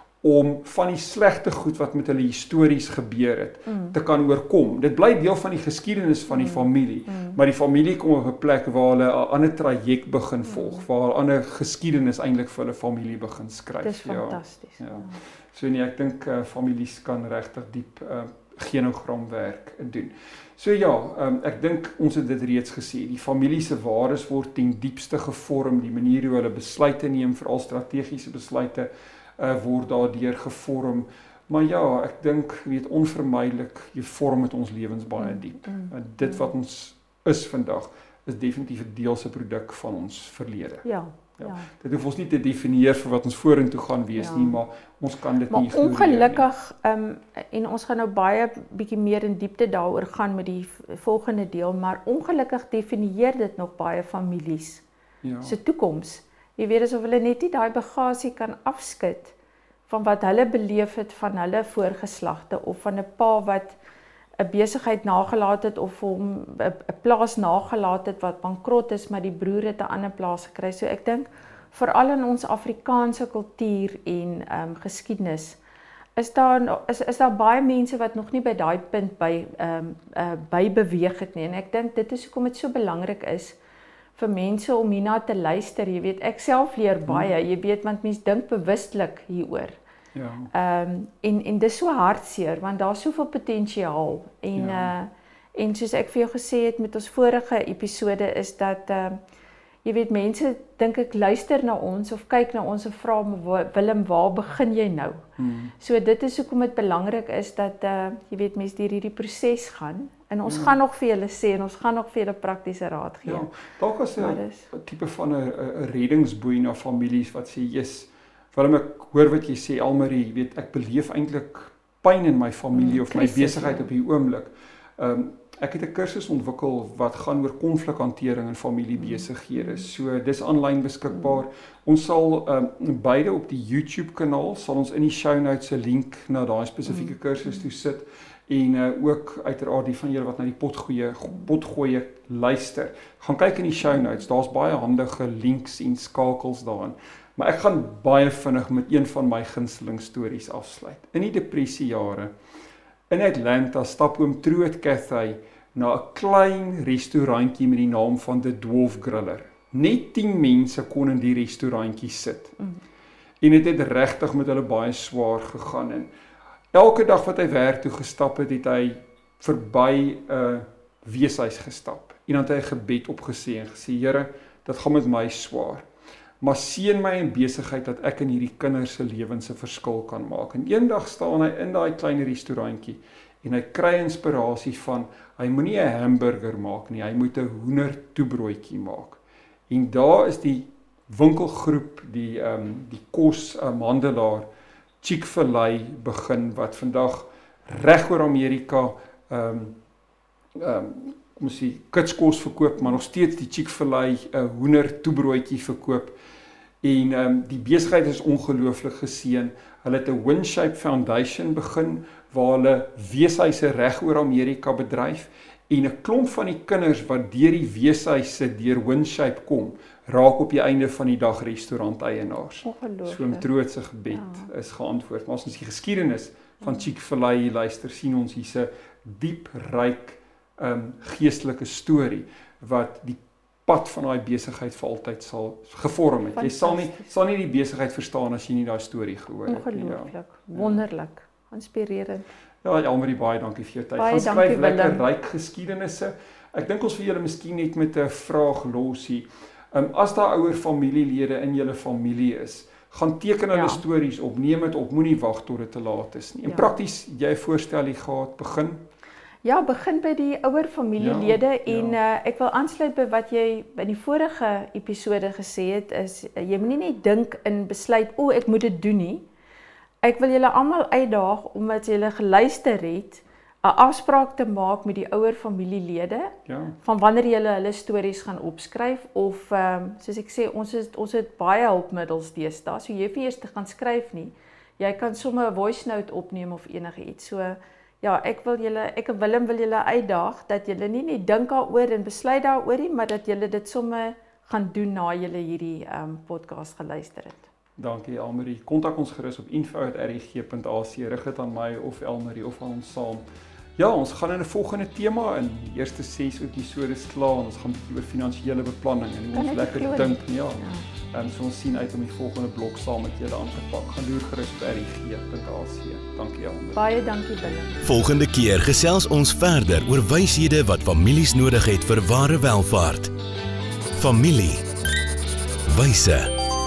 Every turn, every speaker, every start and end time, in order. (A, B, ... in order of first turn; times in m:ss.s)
0:00.2-0:40.8 A
0:03.7-0:04.0 B
0:06.3-0:07.4 B
0:10.4-0:10.8 B
0:13.8-0:15.2 B
0:35.2-0:36.5 B
0:40.8-0:41.7 B
0:41.4-0:46.5 A
0:44.1-0:44.6 B
0:45.5-0:54.8 B
0:55.2-0:55.6 A
0:55.4-0:59.3 B
0:59.9-1:03.8 B
1:04.4-1:15.6 B
1:16.2-1:23.6 B
1:24.1-1:29.8 B
1:27.0-1:27.3 A
1:30.1-1:30.5 A
1:30.5-1:39.2 B
1:34.5-1:34.9 A
1:39.8-1:45.2 B
1:45.4-1:45.7 A
1:45.8-1:53.5 B
1:50.4-1:50.8 A
1:53.2-2:32.3 A
1:54.2-1:54.7 B
2:02.7-2:03.9 B
2:09.0-2:09.8 B
2:16.9-2:17.1 B
2:33.1-2:42.6 A
2:43.4-2:46.1 A
2:46.7-2:55.9 A
2:56.4-3:14.5 A
3:15.0-3:19.8 A
3:20.6-3:26.2 A
3:26.8-4:00.8 A
3:42.6-3:43.5 B
3:44.1-3:44.5 B
3:56.3-3:57.1 B
3:59.4-4:02.3 B
4:02.6-4:18.8 A
4:04.0-4:05.0 B
4:13.5-4:13.8 B
4:16.5-4:16.7 B
4:19.4-4:29.2 B
4:21.0-4:22.0 A
4:30.0-4:57.4 B
4:36.5-4:36.8 A
4:57.8-5:03.2 A
5:03.8-5:16.8 A
5:09.3-5:10.8 B
5:16.7-5:17.8 B
5:17.8-5:23.1 C
5:24.0-5:24.6 C
5:25.7-5:26.3 C